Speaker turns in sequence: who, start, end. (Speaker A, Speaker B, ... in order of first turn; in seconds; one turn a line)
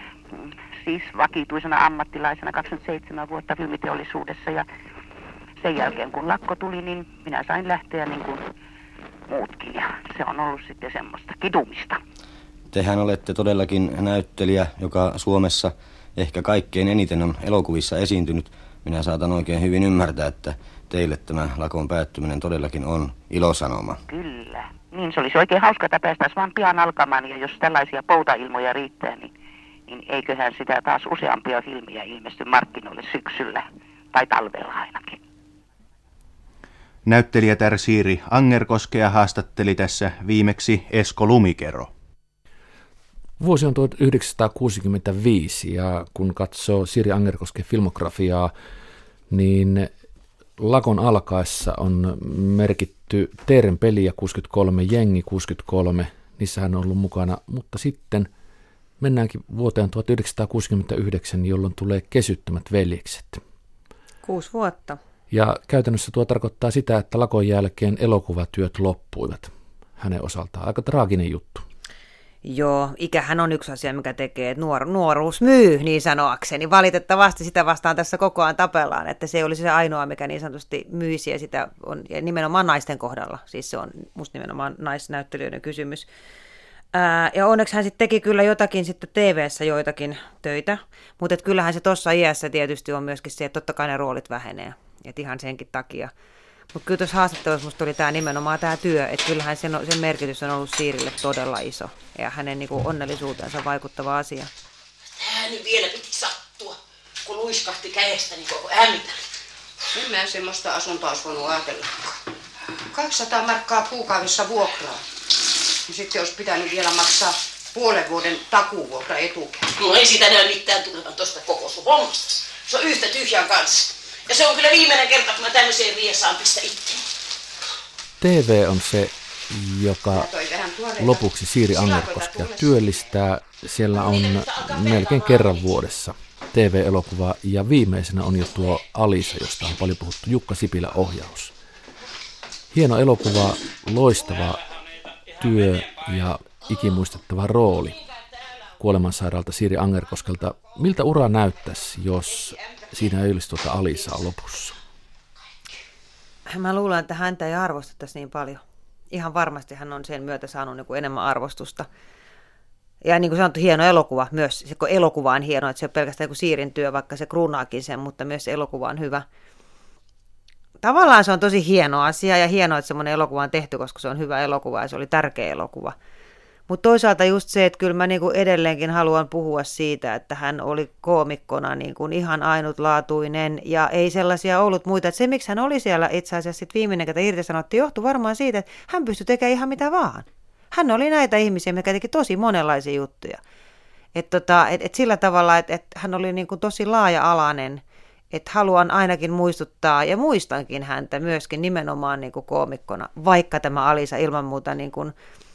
Speaker A: 0.4-4.7
Speaker A: 5.6-8.4
Speaker A: 9.3-12.0
Speaker B: 12.7-24.0
Speaker A: 24.1-29.3
Speaker A: 29.9-35.2
Speaker C: 37.1-41.9
Speaker D: 43.4-48.5
Speaker D: 49.3-49.9
Speaker D: 50.6-58.3
Speaker D: 59.0-63.4
Speaker E: 64.2-65.0
Speaker D: 65.3-71.7
Speaker E: 72.5-86.1
Speaker E: 86.9-96.1
Speaker E: 96.7-104.5
Speaker F: 105.2-109.2
Speaker G: 109.9-112.1
Speaker G: 112.9-115.0
Speaker G: 115.9-119.7
Speaker F: 119.8-127.1
Speaker D: 128.2-130.3
Speaker G: 130.1-132.7
Speaker D: 131.0-141.5
Speaker F: 134.1-135.5
Speaker D: 142.7-144.7
Speaker D: 145.4-148.0
Speaker D: 148.8-154.8
Speaker E: 156.5-161.9
Speaker E: 163.0-169.2
Speaker E: 170.8-175.9
Speaker E: 176.7-193.4
Speaker E: 194.2-205.1